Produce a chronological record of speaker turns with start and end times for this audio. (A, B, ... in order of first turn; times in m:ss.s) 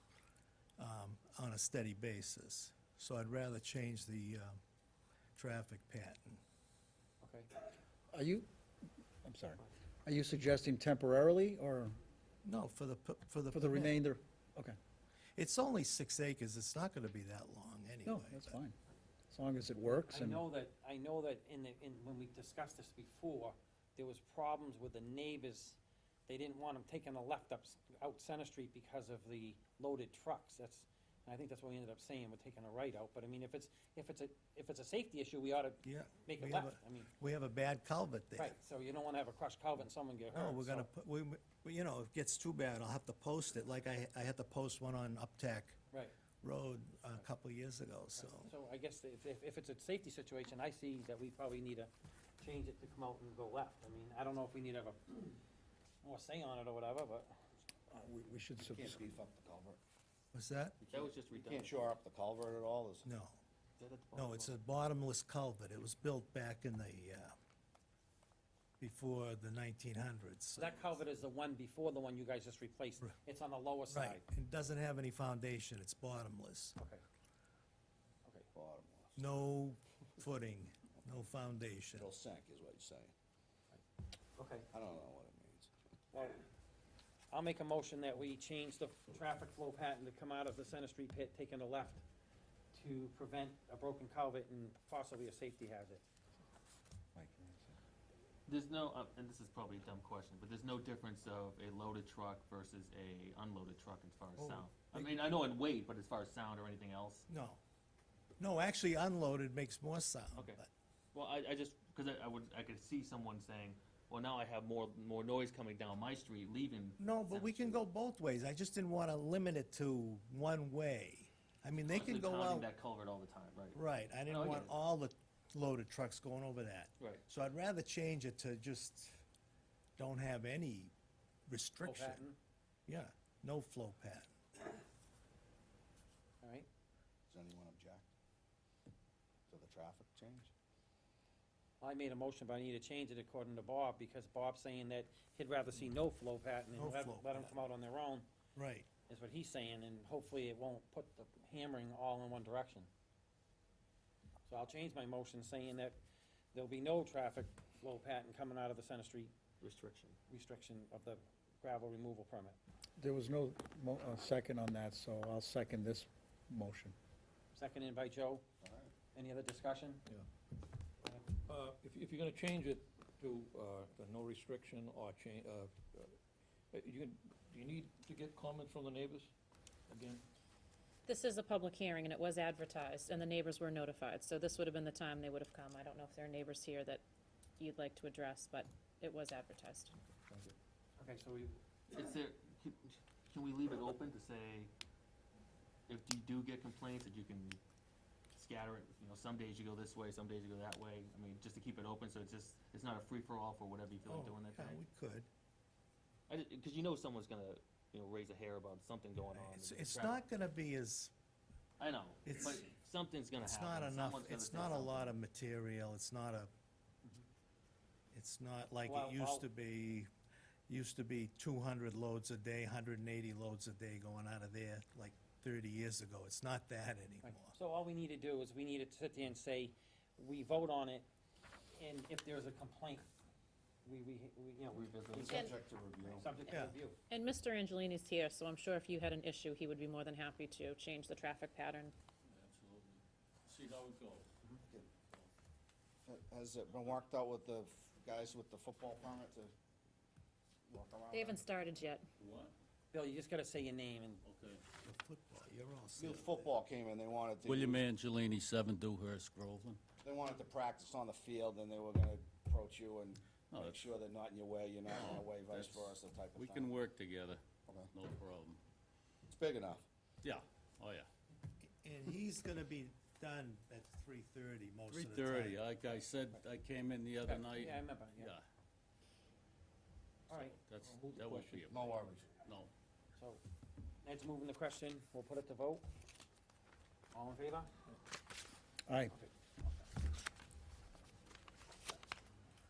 0:00.8-0:04.6 A
0:05.4-0:06.4 A
0:07.2-0:07.5 B
0:08.1-0:08.5 C
0:09.2-0:12.0 C
0:12.4-0:14.0 A
0:13.5-0:14.8 C
0:15.4-0:18.6 A
0:18.0-0:18.8 C
0:19.3-0:20.4 C
0:19.9-0:37.1 B
0:35.8-0:38.6 A
0:38.4-0:40.9 B
0:40.3-0:45.8 A
0:46.4-0:48.5 A
0:48.2-0:55.3 B
0:56.0-0:57.3 B
0:57.9-0:59.2 C
0:58.7-0:59.8 D
1:00.3-1:00.8 A
1:00.8-1:03.1 D
1:00.9-1:02.0 E
1:03.1-1:03.4 A
1:03.8-1:04.6 E
1:04.2-1:07.4 A
1:08.8-1:10.7 A
1:10.6-1:14.2 B
1:13.9-1:16.8 A
1:16.8-1:17.0 B
1:18.5-1:19.2 D
1:19.2-1:22.1 A
1:22.0-1:23.1 D
1:24.4-1:24.7 B
1:24.7-1:25.7 D
1:26.1-1:26.4 B
1:27.3-1:32.0 B
1:32.7-1:36.0 B
1:37.2-1:37.7 C
1:38.5-1:47.3 E
1:44.4-1:45.2 A
1:47.3-1:47.6 A
1:48.4-1:50.7 A
1:50.4-1:50.6 E
1:51.1-1:57.8 E
1:57.0-2:02.7 A
2:01.9-2:04.7 E
2:03.8-2:09.2 A
2:10.0-2:10.9 A
2:11.5-2:12.2 A
2:11.8-2:12.4 B
2:12.9-2:14.3 A
2:16.4-2:16.7 B
2:17.3-2:18.1 D
2:19.5-2:20.5 D
2:21.8-2:28.3 B
2:26.8-2:27.5 A
2:28.6-2:28.9 A
2:29.1-2:32.9 B
2:34.5-2:36.0 B
2:36.5-2:39.3 B
2:39.6-2:40.2 E
2:40.3-2:42.6 B
2:43.0-2:47.0 C
2:47.5-2:48.4 B
2:48.6-2:49.0 D
2:49.1-2:50.1 B
2:51.5-2:56.1 F
2:56.7-2:59.3 F
2:59.9-3:00.2 F
3:01.1-3:07.0 G
3:07.6-3:10.0 G
3:11.0-3:11.6 B
3:11.9-3:14.7 E
3:15.9-3:17.6 E
3:18.3-3:24.8 E
3:24.1-3:25.3 A
3:26.3-3:30.2 E
3:29.3-3:31.1 A
3:31.8-3:35.2 E
3:32.3-3:32.7 A
3:33.4-3:36.5 A
3:38.1-3:40.1 A
3:38.8-3:39.5 B
3:40.7-3:47.6 A
3:47.2-3:51.1 B
3:51.8-3:53.1 B
3:53.8-3:55.4 B
3:54.8-3:55.3 E
3:55.0-3:56.5 D
3:56.2-3:57.0 B
3:56.5-3:56.8 A
3:57.1-4:02.0 G
4:02.3-4:04.3 H
4:06.0-4:09.5 D
4:10.7-4:11.4 D
4:11.1-4:12.1 G
4:12.2-4:12.6 H
4:12.9-4:14.2 B
4:14.2-4:14.6 H
4:14.8-4:16.4 A
4:16.0-4:17.8 D
4:17.4-4:19.8 H
4:20.0-4:26.8 D
4:23.5-4:24.0 H
4:24.9-4:28.6 H
4:27.7-4:27.9 D
4:29.3-4:29.8 D
4:30.2-4:31.1 H
4:31.8-4:35.6 A
4:34.9-4:38.4 H
4:37.2-4:38.3 B
4:40.3-4:40.6 B
4:40.3-4:42.7 H
4:40.9-4:41.6 F
4:41.7-4:42.4 D
4:43.2-4:43.4 B
4:44.0-4:45.9 B
4:47.1-4:47.7 B
4:48.9-4:49.1 C
4:49.1-4:49.8 B